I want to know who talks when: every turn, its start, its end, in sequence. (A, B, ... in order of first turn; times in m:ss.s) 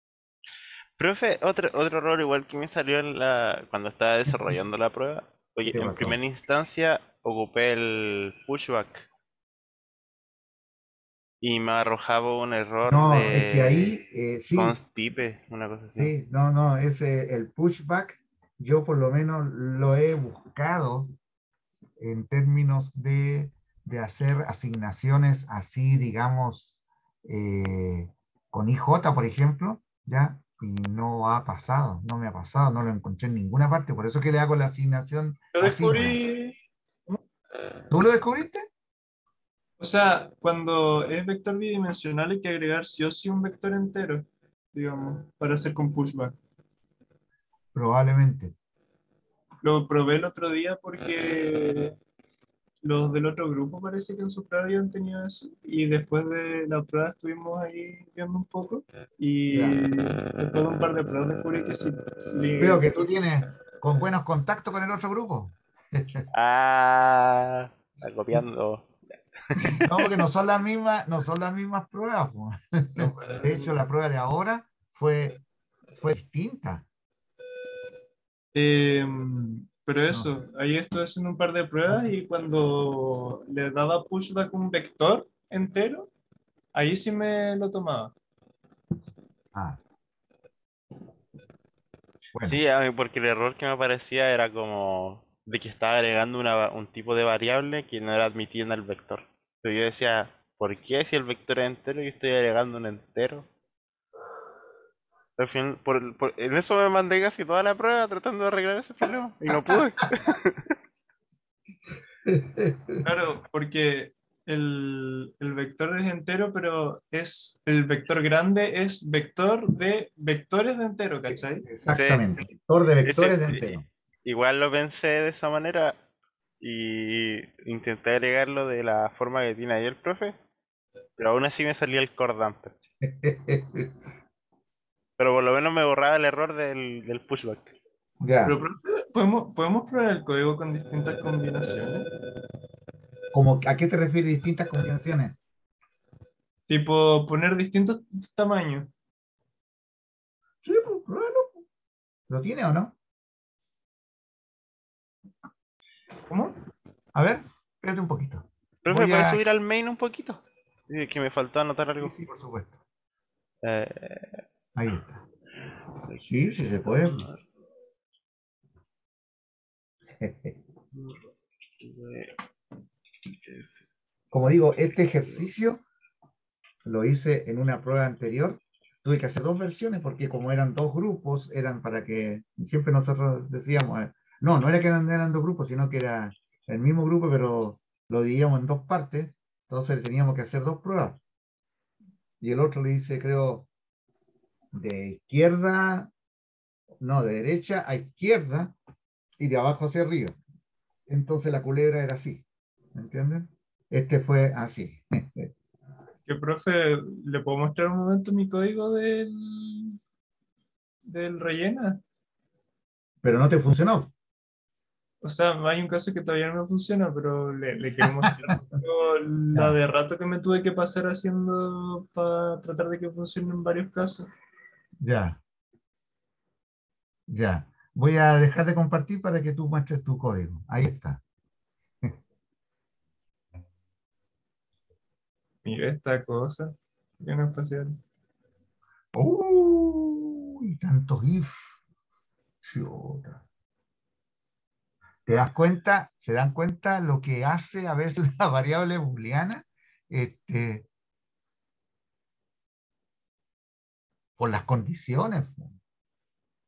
0:01.0-0:09.1 A
0:05.7-0:06.2 B
0:11.4-0:14.0 A
0:12.9-0:14.8 B
0:14.5-0:16.1 A
0:16.0-0:21.1 B
0:22.0-0:36.2 B
0:35.5-0:37.2 C
0:37.9-0:38.7 B
0:39.8-0:46.4 C
0:47.7-0:48.5 B
0:49.6-0:51.9 C
0:52.8-1:02.9 C
0:59.5-0:59.8 B
1:02.6-1:06.2 B
1:06.3-1:08.9 A
1:09.6-1:10.1 A
1:09.6-1:15.4 B
1:13.0-1:13.8 C
1:16.0-1:16.8 B
1:18.5-1:26.1 C
1:21.9-1:22.1 B
1:26.7-1:28.1 C
1:29.5-1:29.8 B
1:32.3-1:32.6 B
1:32.4-1:43.5 A
1:45.4-1:50.6 A
1:52.3-1:53.0 B
1:53.0-2:01.6 C
2:01.3-2:03.8 B
2:01.9-2:02.3 A
2:03.0-2:03.6 A
2:04.2-2:06.0 A
2:06.6-2:10.4 A
2:11.2-2:12.7 A
2:13.0-2:13.9 B
2:15.2-2:17.7 A
2:18.2-2:18.6 B
2:18.4-2:22.1 C
2:23.3-2:25.4 B
2:26.7-2:28.9 C
2:30.6-2:31.6 B
2:32.3-2:32.9 B
2:36.3-2:36.6 C
2:37.1-2:39.4 B
2:38.8-2:42.1 A
2:42.0-2:42.8 B
2:43.6-2:44.4 A
2:44.8-2:45.2 B
2:46.2-2:47.3 B
2:46.9-2:47.4 A
2:50.2-2:50.6 B
2:51.8-2:52.3 A
2:54.3-2:55.8 B
2:56.8-3:11.2 B
3:12.4-3:13.7 B
3:14.7-3:16.1 B
3:17.0-3:18.7 B
3:19.4-3:20.4 B
3:21.1-3:22.4 B
3:22.9-3:25.5 B
3:26.3-3:30.0 C
3:31.0-3:32.0 C
3:33.2-3:34.1 B
3:35.2-3:44.3 C
3:45.0-3:45.4 B
3:47.3-3:51.2 B
3:55.6-3:58.0 C
3:59.1-4:01.6 B
4:02.6-4:03.4 B
4:05.2-4:10.9 B
4:14.4-4:15.8 B